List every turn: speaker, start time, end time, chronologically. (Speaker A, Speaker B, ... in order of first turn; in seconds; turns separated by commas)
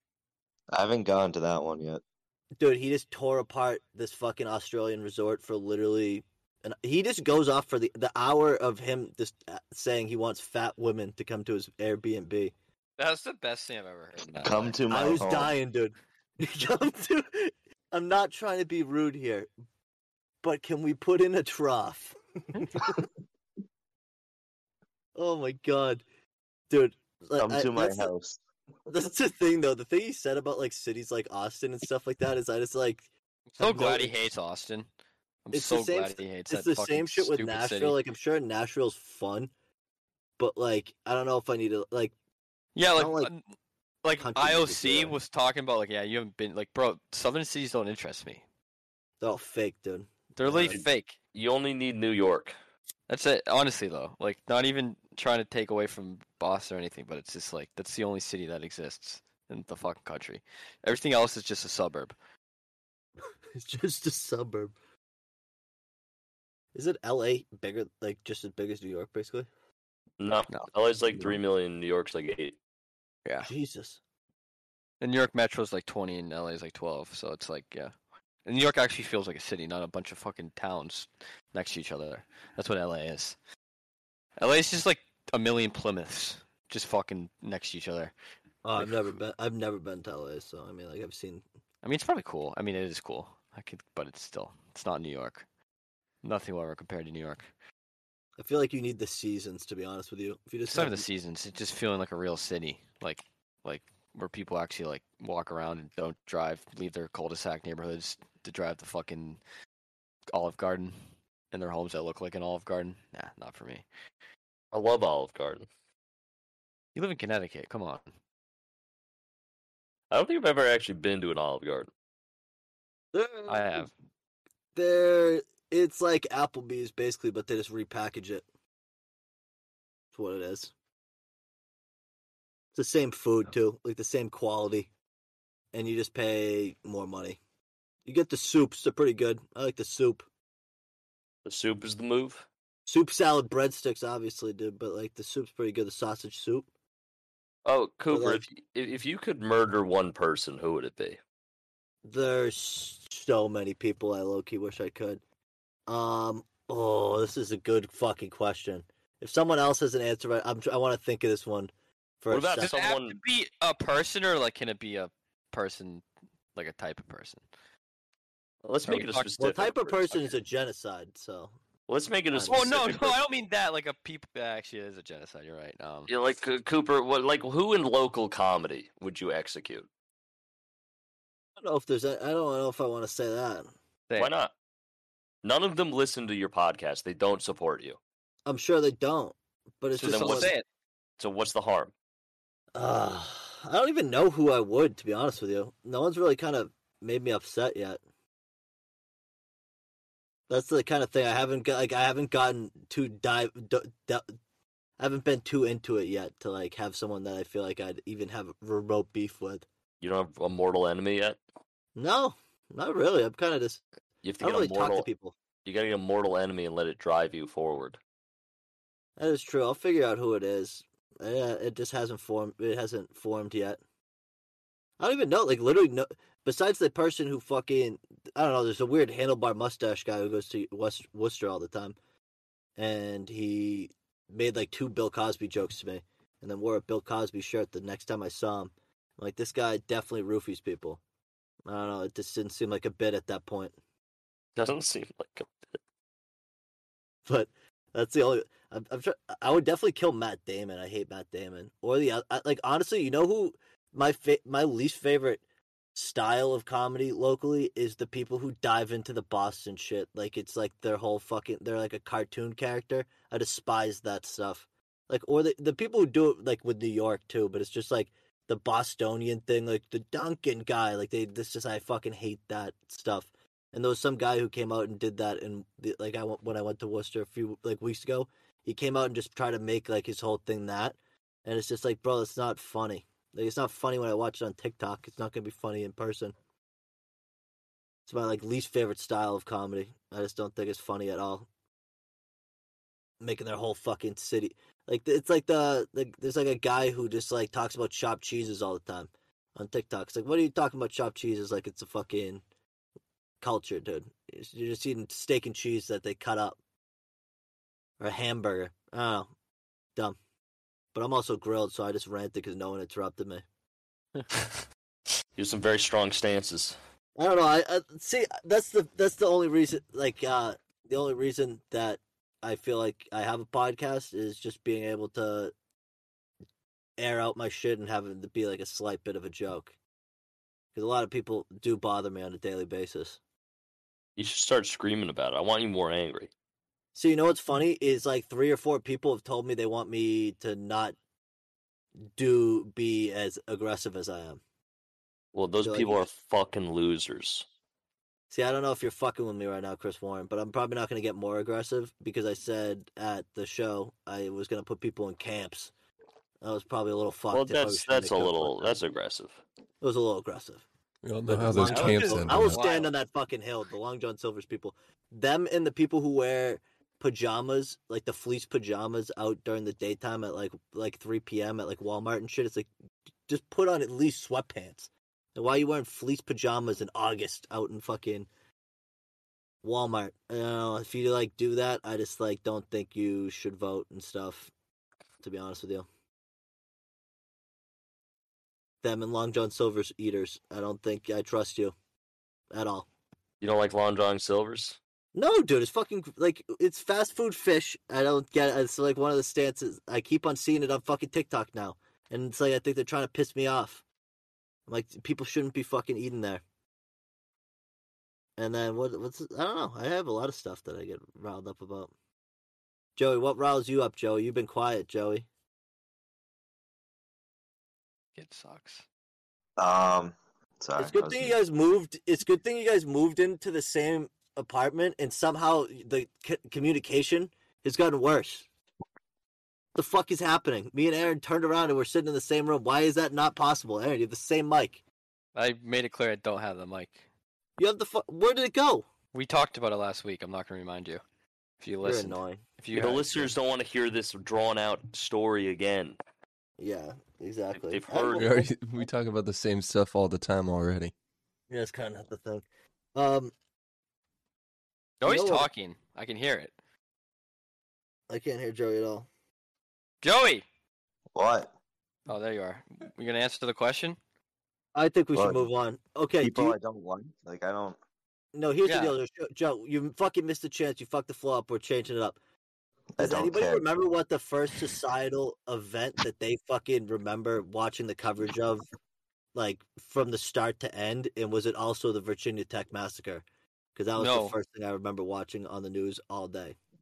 Speaker A: 0.7-2.0, Speaker B: 2.6-12.5, Speaker C: 13.0-15.2, Speaker A: 14.2-15.6, Speaker B: 14.9-19.5, Speaker B: 20.4-23.0, Speaker B: 25.1-26.0, Speaker B: 26.7-28.1, Speaker A: 27.4-28.4, Speaker B: 28.9-33.0, Speaker C: 33.5-34.9, Speaker B: 33.6-34.1, Speaker C: 35.5-38.0, Speaker B: 35.5-39.5, Speaker B: 40.4-42.1, Speaker C: 42.7-43.4, Speaker B: 43.0-43.3, Speaker C: 44.0-48.4, Speaker B: 44.2-45.1, Speaker B: 49.2-50.8, Speaker C: 50.3-51.1, Speaker D: 50.7-52.5, Speaker C: 53.1-62.1, Speaker B: 63.5-64.7, Speaker B: 66.7-69.5, Speaker D: 70.2-72.6, Speaker C: 70.5-71.4, Speaker C: 73.2-73.5, Speaker B: 73.4-74.0, Speaker C: 75.0-77.9, Speaker C: 78.4-83.4, Speaker C: 84.4-88.1, Speaker B: 88.6-91.4, Speaker C: 88.8-89.2, Speaker C: 91.8-95.4, Speaker C: 96.2-97.5, Speaker B: 98.4-101.0, Speaker C: 100.7-109.4, Speaker C: 110.3-111.0, Speaker C: 111.5-113.8, Speaker D: 114.7-115.7, Speaker C: 116.9-118.1, Speaker D: 120.1-121.9, Speaker B: 123.1-123.8, Speaker C: 123.5-123.9, Speaker B: 124.7-128.4, Speaker B: 130.1-130.7, Speaker B: 132.7-134.9, Speaker B: 135.7-137.4, Speaker B: 138.1-140.2, Speaker D: 141.4-142.4, Speaker B: 142.9-146.7, Speaker D: 147.6-151.2, Speaker B: 148.1-148.4, Speaker B: 152.0-155.2, Speaker B: 155.9-162.7, Speaker D: 162.3-163.2, Speaker C: 162.6-166.0, Speaker C: 166.5-167.4, Speaker D: 168.6-170.4, Speaker C: 168.8-169.3, Speaker B: 169.4-171.6, Speaker D: 171.9-173.2, Speaker B: 172.3-172.6, Speaker C: 172.4-176.1, Speaker D: 176.1-179.9, Speaker B: 181.6-183.7, Speaker D: 184.2-184.5, Speaker D: 185.4-188.0, Speaker B: 188.4-190.5, Speaker C: 189.9-190.6, Speaker D: 190.0-190.5, Speaker D: 191.2-191.9, Speaker B: 192.7-198.0, Speaker B: 200.5-204.3, Speaker B: 205.0-209.7, Speaker D: 210.0-211.4, Speaker B: 211.9-213.8, Speaker D: 214.2-215.1, Speaker B: 214.4-215.3, Speaker D: 215.6-218.0, Speaker B: 219.2-223.8, Speaker B: 225.0-231.9, Speaker B: 232.8-241.0, Speaker B: 241.7-243.7, Speaker D: 244.6-245.7, Speaker B: 247.2-255.4, Speaker B: 255.9-286.3, Speaker B: 288.1-291.5, Speaker B: 293.2-302.4, Speaker B: 303.4-306.6, Speaker B: 308.0-309.3, Speaker B: 310.9-313.4, Speaker D: 315.4-316.8, Speaker B: 317.1-325.5, Speaker B: 327.0-329.7, Speaker B: 330.7-333.2, Speaker D: 334.2-336.3, Speaker B: 336.9-340.9, Speaker B: 342.1-344.4, Speaker D: 345.3-347.5, Speaker B: 345.6-346.1, Speaker B: 348.3-355.7, Speaker B: 356.4-358.8, Speaker D: 357.3-359.4, Speaker B: 359.8-360.6, Speaker E: 361.0-362.6, Speaker B: 361.3-372.7, Speaker D: 361.6-362.1, Speaker C: 361.6-362.9, Speaker B: 373.3-378.3, Speaker B: 379.6-384.5, Speaker B: 385.2-385.9, Speaker B: 388.8-391.7, Speaker B: 392.5-392.9, Speaker D: 393.4-394.8, Speaker B: 395.1-403.8, Speaker B: 404.7-406.4, Speaker B: 408.4-411.9, Speaker B: 412.9-415.2, Speaker C: 418.1-418.8, Speaker A: 419.6-421.3, Speaker B: 420.8-428.4, Speaker B: 429.7-434.8, Speaker C: 435.3-437.0, Speaker B: 437.6-438.9, Speaker C: 439.1-441.0, Speaker C: 441.6-443.3, Speaker B: 441.8-442.4, Speaker D: 442.7-445.9, Speaker B: 446.6-448.5, Speaker D: 447.5-448.4, Speaker E: 448.1-450.9, Speaker B: 451.5-452.4, Speaker B: 452.9-453.3, Speaker C: 455.0-456.5, Speaker B: 455.0-455.5, Speaker B: 458.1-459.1, Speaker C: 460.0-460.4, Speaker A: 461.1-461.5, Speaker C: 462.1-464.0, Speaker B: 464.7-466.6, Speaker A: 465.1-465.5, Speaker A: 466.2-467.8, Speaker B: 468.3-472.1, Speaker C: 468.6-468.9, Speaker A: 473.0-473.7, Speaker B: 473.0-478.7, Speaker B: 479.3-483.2, Speaker B: 483.7-486.6, Speaker C: 483.9-484.3